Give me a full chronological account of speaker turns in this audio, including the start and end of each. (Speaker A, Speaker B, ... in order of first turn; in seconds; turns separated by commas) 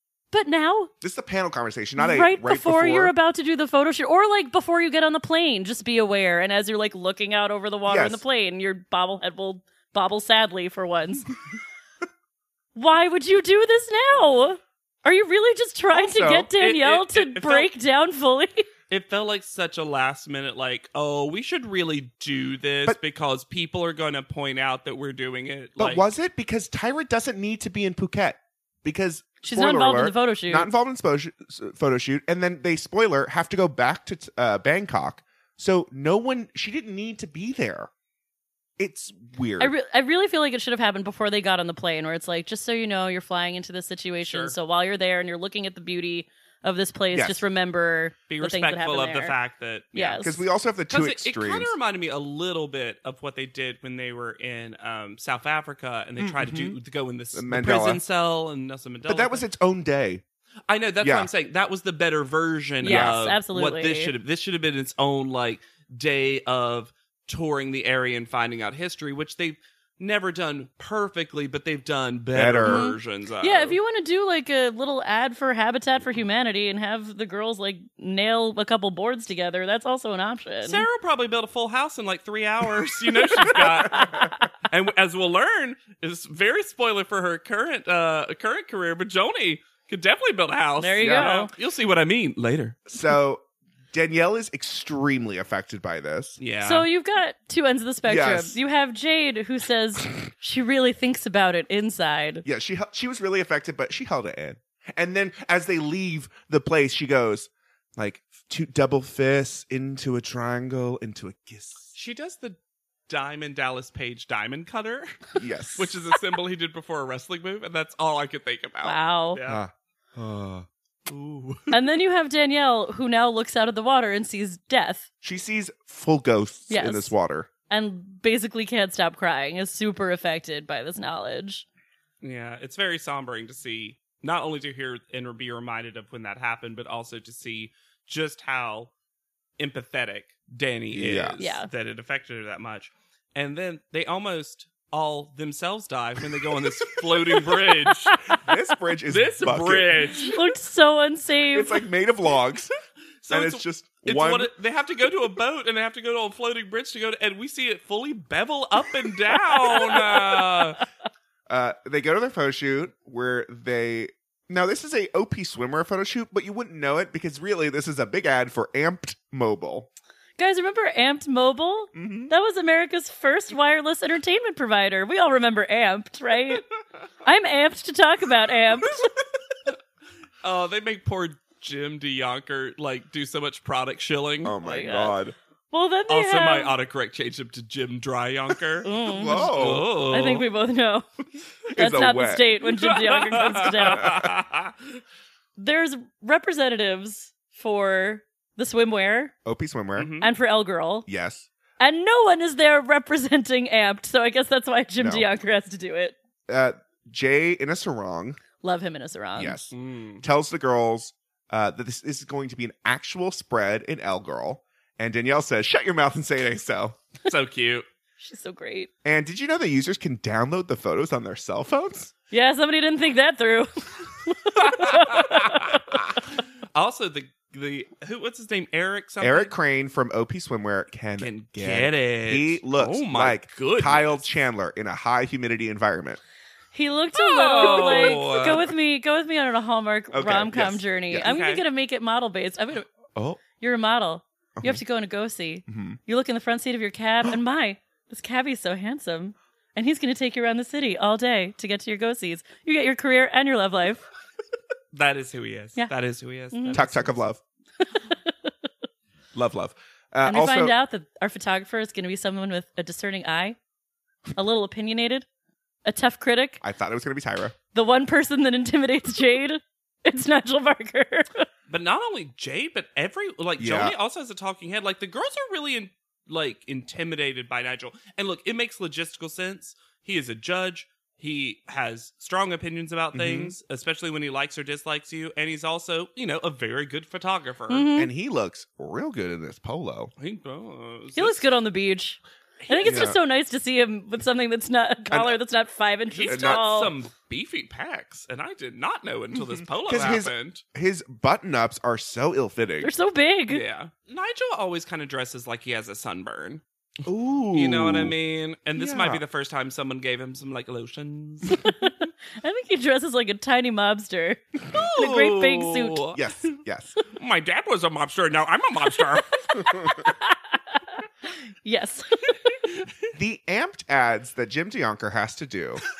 Speaker A: 0.3-0.9, Speaker B: 1.0-3.1, Speaker A: 2.0-11.3, Speaker B: 7.9-8.2, Speaker A: 12.7-18.7, Speaker B: 15.9-16.5, Speaker C: 16.6-17.7, Speaker C: 18.9-26.1, Speaker B: 25.8-37.9, Speaker A: 29.4-30.7, Speaker B: 38.8-39.7, Speaker A: 39.6-49.3, Speaker C: 44.2-44.5, Speaker B: 47.1-47.4, Speaker C: 48.3-50.2, Speaker A: 49.9-50.4, Speaker B: 50.1-51.7, Speaker C: 50.9-59.4, Speaker B: 56.2-56.8, Speaker B: 57.3-58.0, Speaker B: 59.0-60.2, Speaker C: 60.7-73.8, Speaker B: 61.0-61.3, Speaker A: 62.8-64.1, Speaker B: 62.8-63.2, Speaker B: 72.3-72.9, Speaker A: 72.6-80.8, Speaker C: 80.6-92.8, Speaker B: 83.3-84.3, Speaker A: 83.5-84.2, Speaker A: 90.8-91.5, Speaker B: 91.0-91.3, Speaker B: 92.9-96.4, Speaker C: 96.4-96.9, Speaker A: 96.6-102.4, Speaker B: 98.0-98.6, Speaker B: 102.4-111.9, Speaker C: 111.9-119.6, Speaker B: 115.3-116.0, Speaker A: 118.8-119.4, Speaker B: 119.5-120.7, Speaker C: 121.1-121.8, Speaker A: 121.7-125.0, Speaker B: 125.2-127.5, Speaker A: 126.7-127.1, Speaker A: 127.7-131.6, Speaker C: 132.2-138.9, Speaker C: 139.6-148.3, Speaker B: 140.9-141.4, Speaker A: 141.4-141.7, Speaker B: 148.4-150.0, Speaker C: 149.1-150.5, Speaker A: 150.1-151.8, Speaker B: 151.5-152.7, Speaker C: 153.2-160.8, Speaker B: 153.3-154.5, Speaker B: 161.5-169.9, Speaker A: 170.4-176.6, Speaker B: 171.9-172.3, Speaker A: 177.2-179.1, Speaker C: 180.4-184.6, Speaker B: 184.4-185.3, Speaker A: 184.6-185.2, Speaker A: 185.7-186.7, Speaker C: 186.1-190.4, Speaker A: 188.8-191.1, Speaker B: 189.1-189.9, Speaker A: 191.7-194.2, Speaker B: 191.7-192.5, Speaker C: 192.7-194.7, Speaker A: 195.6-199.3, Speaker B: 199.4-200.1, Speaker C: 199.9-200.3, Speaker A: 200.2-201.1, Speaker B: 201.1-201.5, Speaker A: 201.8-206.2, Speaker B: 205.0-205.3, Speaker B: 206.5-208.4, Speaker A: 208.6-209.6, Speaker B: 209.3-217.0, Speaker C: 209.7-210.2, Speaker C: 217.2-217.8, Speaker A: 218.2-218.9, Speaker B: 219.0-222.1, Speaker A: 222.3-225.8, Speaker C: 224.7-225.5, Speaker C: 226.7-229.5, Speaker B: 229.2-236.2, Speaker C: 231.2-234.2, Speaker A: 236.7-242.9, Speaker C: 237.1-238.7, Speaker B: 237.6-238.2, Speaker B: 240.1-241.3, Speaker C: 241.2-241.6, Speaker B: 243.1-243.4, Speaker A: 243.6-254.0, Speaker B: 245.7-246.0, Speaker C: 254.9-257.2, Speaker A: 256.5-256.9, Speaker B: 256.7-257.4, Speaker A: 257.9-258.5, Speaker B: 259.3-260.7, Speaker A: 260.2-263.6, Speaker A: 264.4-265.2, Speaker A: 265.8-266.6, Speaker B: 266.6-267.5, Speaker A: 267.7-271.5, Speaker C: 271.7-287.9, Speaker B: 273.6-273.9, Speaker B: 283.1-283.5, Speaker A: 287.7-288.1, Speaker B: 288.0-290.1, Speaker C: 290.2-291.5, Speaker A: 291.1-296.9, Speaker C: 292.7-293.1, Speaker B: 292.8-293.2, Speaker B: 295.1-295.4, Speaker C: 296.1-300.6, Speaker B: 296.3-296.6, Speaker B: 299.3-302.9, Speaker A: 302.8-303.6, Speaker C: 303.5-306.6, Speaker B: 307.0-308.1, Speaker C: 307.5-311.6, Speaker B: 308.8-309.2, Speaker A: 311.5-314.4, Speaker C: 314.7-316.6, Speaker A: 315.0-316.0, Speaker B: 316.1-316.9, Speaker C: 317.1-319.6, Speaker A: 319.5-321.0, Speaker A: 321.6-322.6, Speaker B: 323.1-325.8